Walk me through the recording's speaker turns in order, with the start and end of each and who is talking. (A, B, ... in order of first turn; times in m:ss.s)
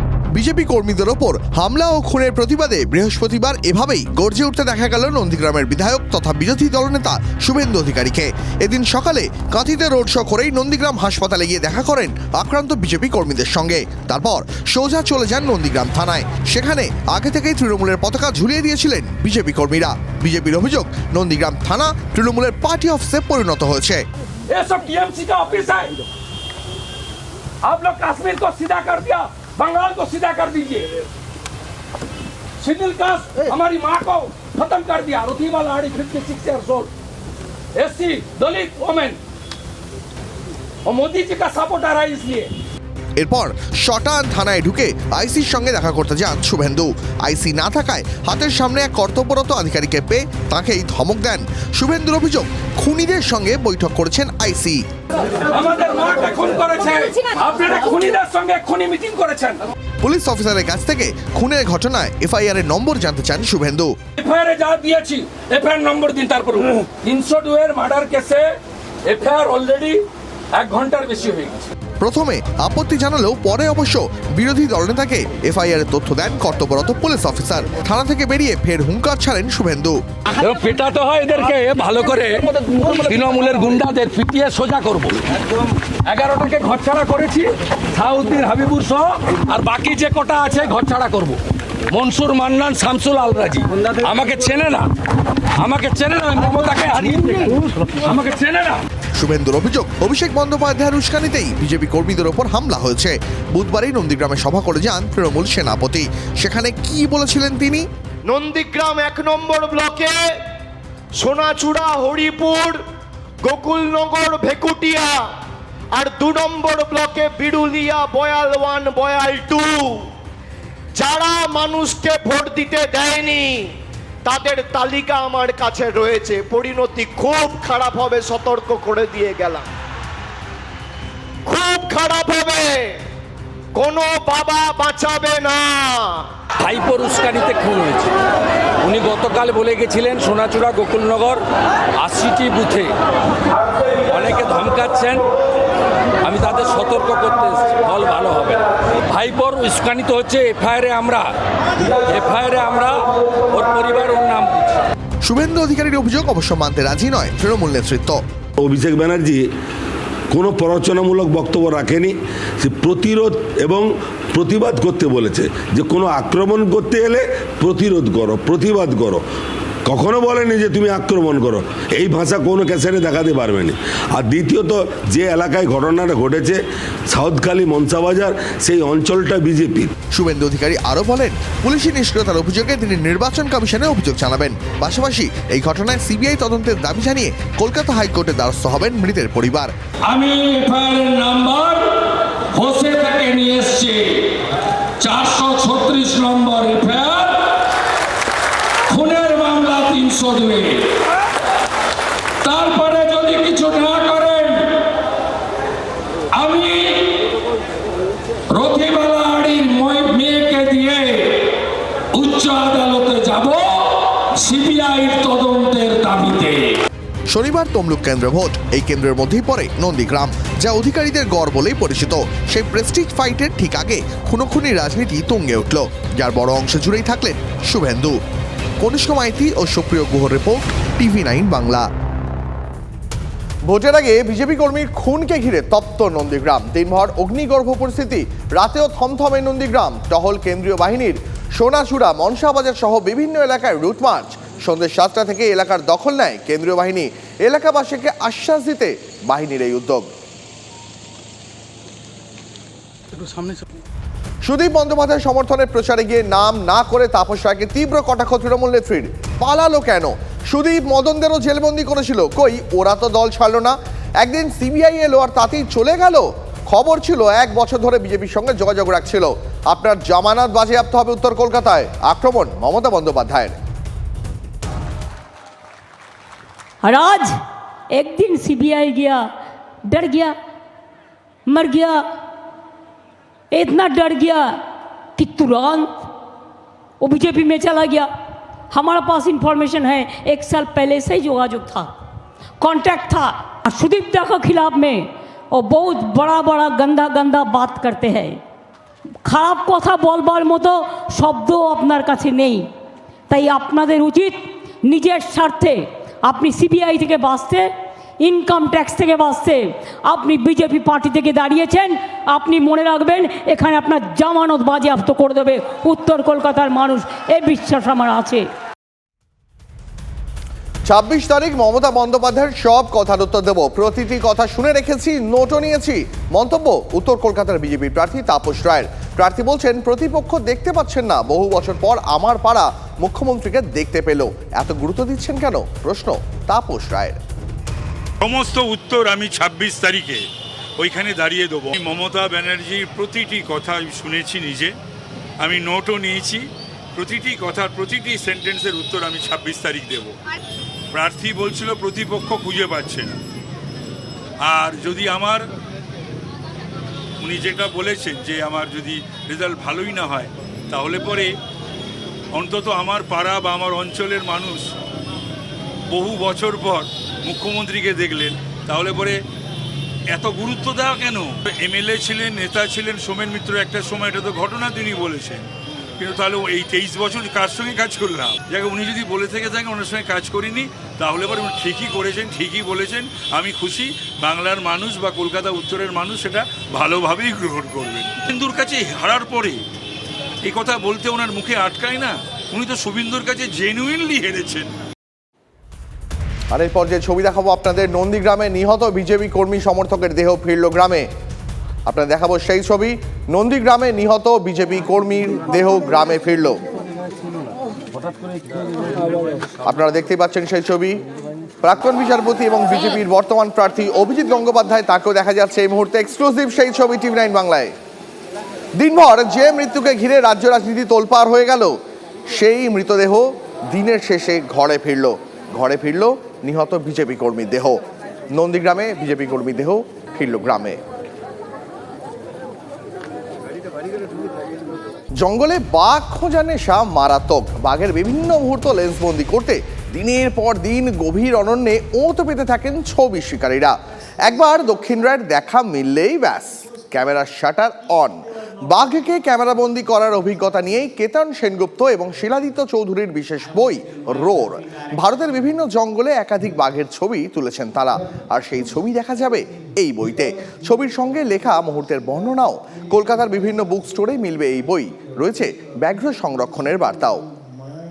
0:00.3-0:24.0 A
0:24.5-0:25.9 B
0:27.6-0:30.9 B
0:32.6-0:36.9 B
0:37.8-0:39.2 B
0:40.9-0:42.5 B
0:43.2-0:54.9 A
0:55.5-0:59.6 B
1:00.0-1:03.9 A
1:04.2-1:08.5 B
1:09.1-1:10.0 B
1:10.5-1:11.7 B
1:12.0-1:20.0 A
1:20.4-1:25.5 B
1:26.1-1:31.4 B
1:31.9-1:34.9 B
1:35.6-1:38.8 B
1:39.2-1:47.8 A
1:48.3-1:50.3 C
1:51.2-1:52.8 C
1:53.4-1:55.3 C
1:56.0-2:00.1 C
2:01.0-2:03.7 C
2:04.2-2:09.7 C
2:11.4-2:13.0 C
2:13.7-2:16.3 C
2:16.6-2:18.1 B
2:18.8-2:21.4 B
2:22.0-2:22.9 B
2:24.0-2:25.3 B
2:26.2-2:31.3 B
2:32.0-2:34.8 B
2:35.2-2:38.2 A
2:38.6-2:39.5 D
2:40.3-2:49.2 D
2:49.9-2:59.9 D
3:00.1-3:09.7 A
3:10.1-3:14.4 B
3:15.0-3:17.5 B
3:18.9-3:20.9 B
3:22.4-3:24.8 B
3:26.4-3:27.3 B
3:28.5-3:31.6 B
3:32.2-3:36.8 B
3:37.3-3:48.2 A
3:48.8-3:51.9 A
3:53.7-4:10.1 A
4:14.4-4:33.6 A
4:36.8-4:37.3 E
4:37.9-4:39.3 E
4:39.9-4:40.4 E
4:41.5-4:42.0 E
4:43.5-4:44.6 E
4:45.2-4:46.0 E
4:47.0-4:48.1 E
4:48.7-4:52.0 E
4:52.6-4:58.4 E
4:59.3-5:02.7 E
5:03.3-5:18.4 E
5:20.9-5:37.2 A
5:38.2-5:44.8 F
5:45.4-5:50.2 F
5:50.9-5:53.2 F
5:54.4-5:55.4 F
5:57.2-6:01.3 F
6:02.3-6:04.7 F
6:05.9-6:09.2 F
6:10.1-6:29.6 F
6:30.4-6:34.7 F
6:36.5-6:41.1 A
6:41.9-6:46.6 A
6:49.7-6:51.0 A
6:51.6-6:57.7 A
6:58.8-7:01.8 A
7:02.3-7:07.8 A
7:08.3-7:10.8 A
7:15.2-7:23.8 A
7:24.3-7:47.2 A